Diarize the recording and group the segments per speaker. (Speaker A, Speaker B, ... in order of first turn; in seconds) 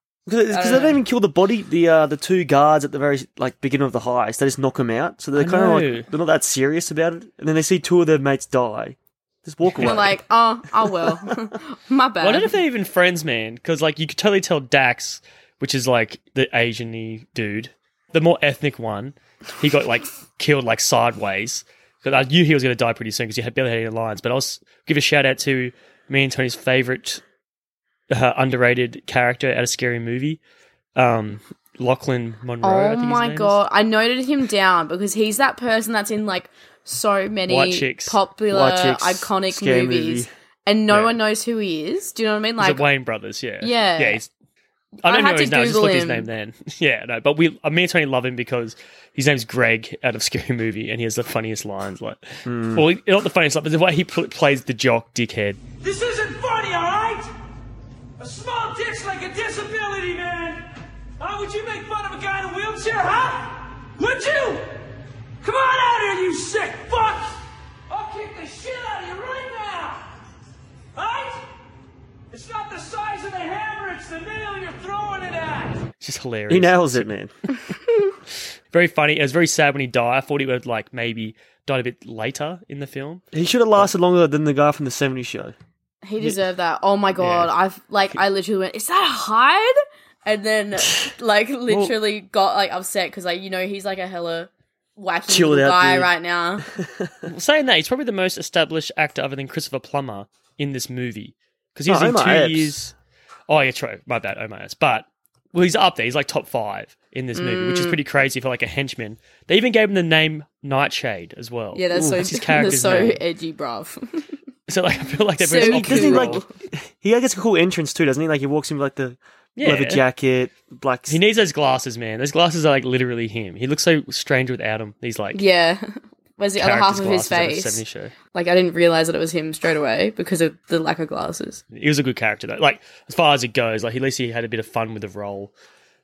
Speaker A: 0.3-10.2, 38.5-40.3, 52.5-52.9, 76.5-77.3, 83.3-85.5, 95.3-96.1, 96.7-97.3, 101.9-102.9, 115.6-121.2
Speaker B: 0.5-1.0, 9.8-12.5, 32.6-42.8, 43.6-44.2, 45.0-46.3, 86.0-96.7, 107.3-108.0, 111.7-114.3, 115.4-116.5, 125.3-127.8, 128.3-131.6
Speaker C: 5.3-6.1, 9.8-10.0, 12.2-27.2, 28.1-30.4, 31.0-33.6, 37.5-38.2, 42.6-44.3, 45.0-55.6, 76.0-77.1, 78.7-83.2, 87.2-87.5, 91.7-91.9, 97.3-102.9, 103.5-113.2, 114.7-116.4, 119.6-120.0, 121.1-125.4, 126.6-128.2, 131.7-135.5
Speaker D: 55.8-57.3, 58.2-60.6, 61.2-64.7, 65.4-67.4, 67.9-70.1, 71.0-71.4, 72.3-75.9